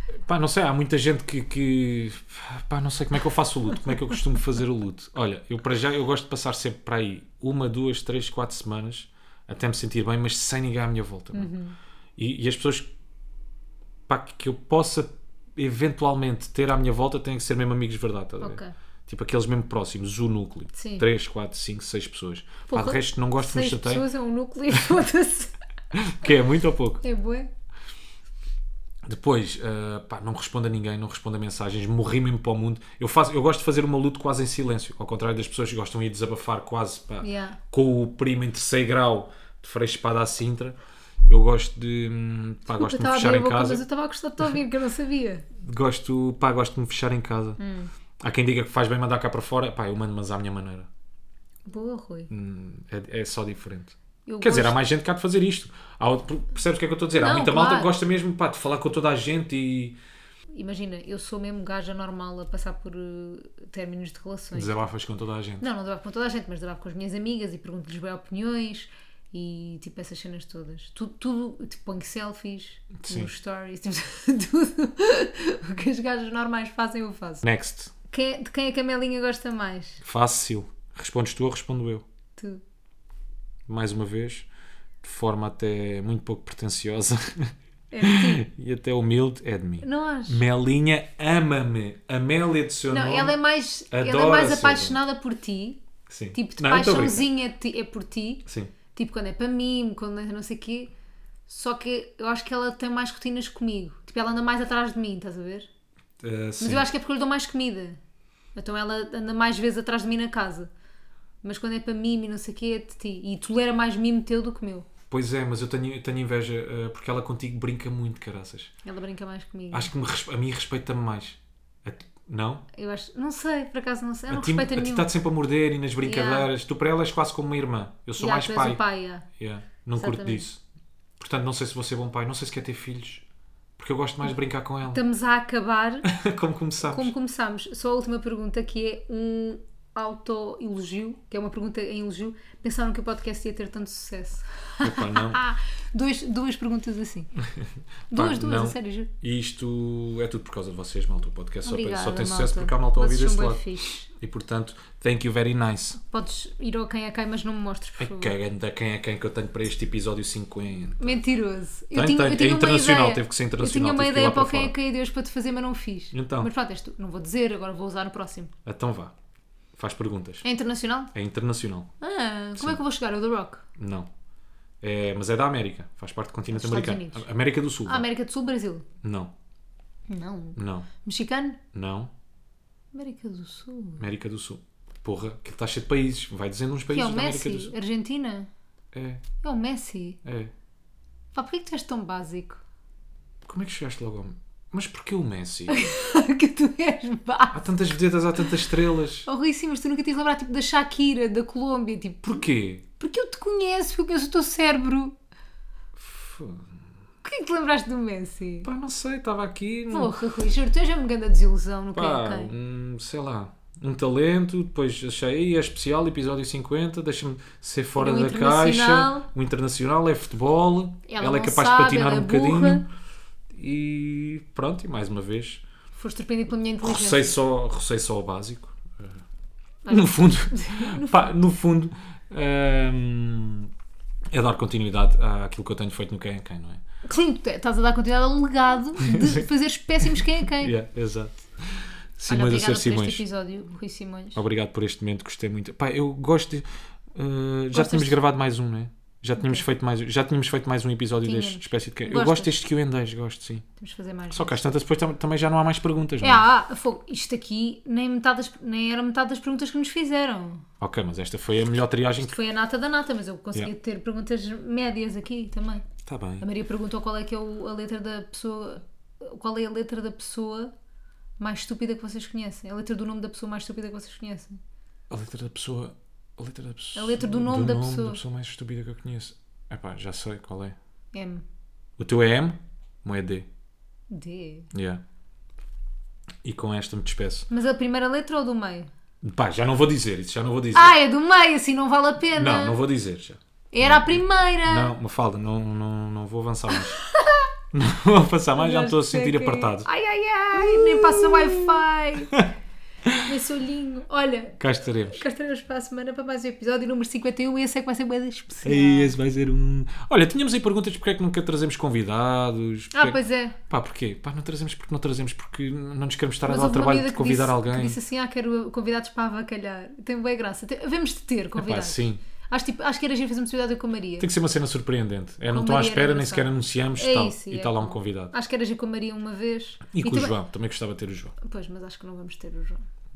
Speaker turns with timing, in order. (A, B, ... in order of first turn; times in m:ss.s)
0:00.2-0:11.5 A
0:11.3-0:11.8 B
0:12.2-0:12.9 A
0:14.1-0:24.0 A
0:18.4-0:18.7 B
0:20.7-0:21.0 B
0:22.7-0:25.5 B
0:25.9-0:27.0 A
0:27.0-0:27.5 B
0:29.0-0:43.8 A
0:37.2-0:37.6 B
0:42.7-0:45.4 B
0:45.6-0:47.6 A
0:47.6-0:47.9 B
0:48.2-0:50.9 A
0:51.7-0:52.3 B
0:52.3-1:00.0 A
0:54.2-0:54.8 B
0:57.2-0:57.9 B
1:00.5-1:04.7 B
1:04.5-1:05.6 A
1:05.6-1:17.4 B
1:13.0-1:13.3 A
1:17.4-1:17.9 A
1:18.1-1:20.0 B
1:20.0-1:22.0 A
1:22.4-1:22.6 B
1:23.7-1:24.5 A
1:25.0-1:33.4 A
1:27.9-1:28.4 B
1:29.8-1:30.4 B
1:32.9-1:35.8 B
1:33.9-1:35.0 A
1:36.1-1:37.3 A
1:36.3-1:40.9 B
1:38.5-1:38.7 A
1:41.5-1:45.7 B
1:46.2-1:46.9 A
1:46.6-1:48.0 B
1:48.5-1:50.7 B
1:51.4-1:54.9 B
1:55.1-1:58.7 A
1:58.8-1:59.9 B
1:59.7-2:02.6 A
2:02.7-2:05.1 B
2:04.3-2:08.8 A
2:06.0-2:06.5 B
2:08.2-2:09.3 B
2:09.3-2:10.6 A
2:10.0-2:10.4 B
2:11.2-2:13.2 A
2:13.8-2:15.0 A
2:14.9-2:16.1 B
2:16.0-2:17.1 A
2:16.8-2:27.3 B
2:24.8-2:25.4 A
2:27.6-2:36.0 A
2:28.1-2:29.1 B
2:31.6-2:34.1 B
2:36.0-2:38.3 B
2:38.0-2:41.2 A
2:41.0-2:48.5 B
2:41.9-2:44.7 A
2:46.1-2:46.5 A
2:48.6-2:49.1 A
2:49.7-2:50.4 A
2:50.4-2:51.1 B
2:51.1-2:51.9 A
2:52.0-2:53.6 B
2:53.8-2:54.1 A
2:54.8-2:58.1 A
2:56.5-2:57.2 B
2:57.8-2:58.8 B
2:59.0-2:59.3 A
3:00.1-3:01.6 B
3:00.6-3:00.9 A
3:01.7-3:02.1 A
3:02.9-3:04.0 B
3:04.0-3:07.7 A
3:06.9-3:08.5 B
3:08.9-3:09.2 A
3:09.4-3:10.2 B
3:10.2-3:10.5 A
3:11.3-3:12.6 B
3:13.4-3:15.9 A
3:15.7-3:17.7 B
3:17.5-3:19.3 A
3:19.2-3:22.4 B
3:22.2-3:22.8 A
3:23.0-3:25.1 B
3:26.0-3:26.8 A
3:27.2-3:28.7 B
3:28.6-3:30.2 A
3:29.9-3:32.5 B
3:31.9-3:42.9 A
3:38.0-3:39.3 B
3:41.1-3:42.9 B
3:43.5-3:45.6 A
3:45.9-3:47.4 B
3:46.8-3:49.2 A
3:49.8-3:51.3 B
3:49.9-3:53.7 A
3:54.3-3:56.8 A
3:57.0-4:00.7 B
3:59.0-3:59.4 A
4:00.4-4:03.2 A
4:02.3-4:04.4 B
4:04.3-4:13.6 A
4:07.7-4:08.2 B
4:11.2-4:12.5 B
4:13.8-4:14.6 B
4:14.3-4:16.4 A
4:16.2-4:20.6 B
4:20.8-4:22.4 A
4:22.2-4:25.8 B
4:26.0-4:26.4 A
4:26.4-4:30.7 B
4:31.4-4:34.6 B
4:35.1-4:40.8 A
4:36.9-4:38.2 B
4:41.1-4:41.4 B
4:42.0-4:43.5 A
4:44.1-4:44.7 B
4:44.7-4:45.0 A
4:46.4-4:47.5 A
4:47.5-4:48.9 B
4:49.2-4:50.9 A
4:50.7-4:52.8 B
4:52.3-4:57.0 A
4:53.7-4:54.9 B
4:56.7-4:57.5 B
4:57.7-4:59.9 A
4:58.6-5:02.5 B
5:00.5-5:02.5 A
5:03.2-5:09.1 B
5:04.6-5:05.2 A
5:08.6-5:18.0 A
5:12.9-5:13.6 B
5:16.4-5:24.3 B
5:21.6-5:22.2 A
5:24.2-5:28.3 A
5:25.5-5:30.4 B
5:29.9-5:31.3 A
5:31.4-5:32.8 B